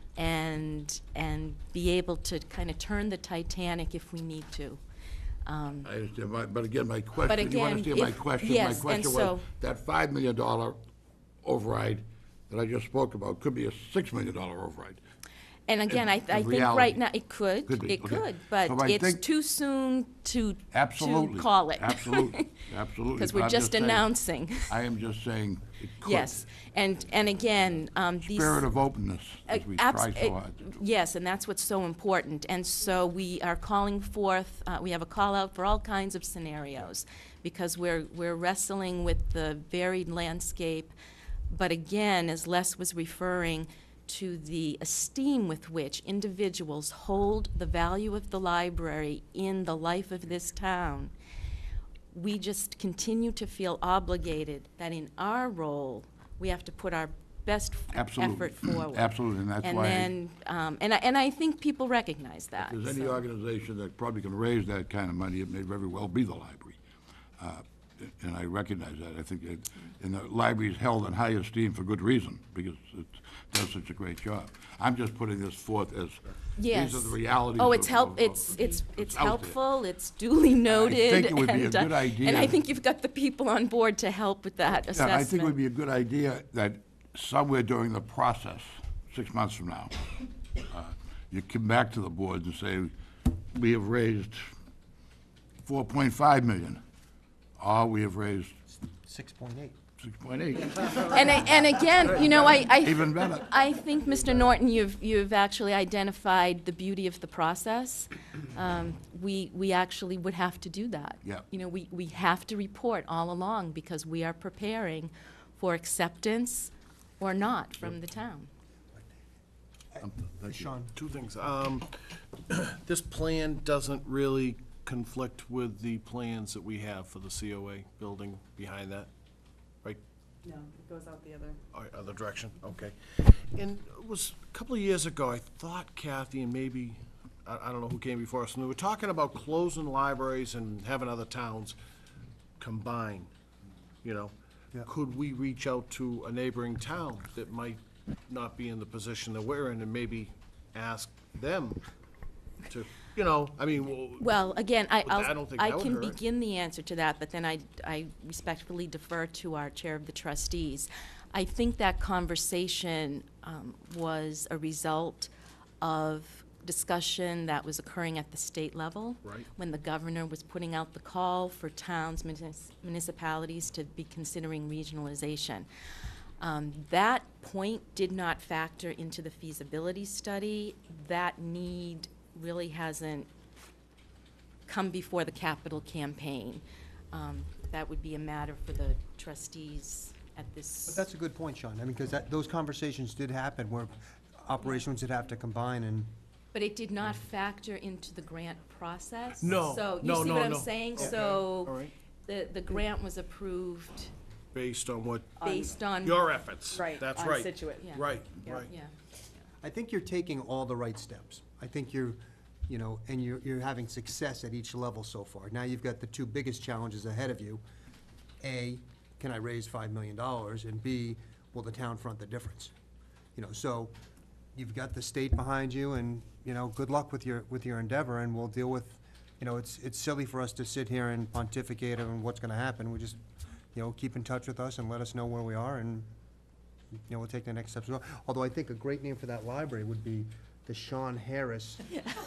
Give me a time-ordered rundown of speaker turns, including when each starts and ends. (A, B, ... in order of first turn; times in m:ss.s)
0:00.2-0:04.8 A
0:05.4-0:05.9 A
0:05.8-0:10.8 B
0:07.2-0:09.4 A
0:11.4-0:15.0 B
0:15.7-0:22.5 A
0:16.3-0:17.0 B
0:17.7-0:19.2 B
0:20.7-0:26.3 B
0:23.1-0:24.7 A
0:26.0-0:28.7 A
0:28.2-0:30.7 B
0:29.5-0:40.9 A
0:41.5-0:51.1 A
0:52.1-1:03.2 A
0:57.9-1:00.1 B
1:02.6-1:06.8 B
1:07.4-1:19.6 B
1:16.6-1:25.6 A
1:20.7-1:22.6 B
1:24.9-1:30.0 B
1:30.7-1:34.4 B
1:35.6-1:36.8 B
1:37.6-1:38.5 B
1:39.0-1:39.8 C
1:40.0-1:41.4 B
1:41.0-1:58.5 A
1:42.8-1:43.5 B
2:00.0-2:00.9 C
2:00.0-2:00.7 B
2:00.9-2:09.1 D
2:10.4-2:11.6 E
2:11.7-2:21.8 D
2:22.6-2:23.3 D
2:24.0-2:24.3 D
2:24.8-2:31.8 D
2:32.7-2:34.4 D
2:34.2-2:45.3 A
2:35.0-2:36.2 D
2:45.8-2:55.7 A
2:56.4-3:03.3 A
3:04.7-3:11.0 A
3:10.9-3:16.1 C
3:16.5-3:24.1 A
3:19.4-3:21.9 D
3:24.5-3:25.4 D
3:25.4-3:25.6 E
3:25.4-3:26.2 A
3:26.0-3:28.7 D
3:26.7-3:28.6 E
3:27.8-3:28.9 A
3:29.6-3:37.6 C
3:38.4-3:42.7 C
3:43.4-3:43.9 C
3:44.5-3:53.2 C
3:53.7-3:56.1 C
3:57.1-4:02.0 C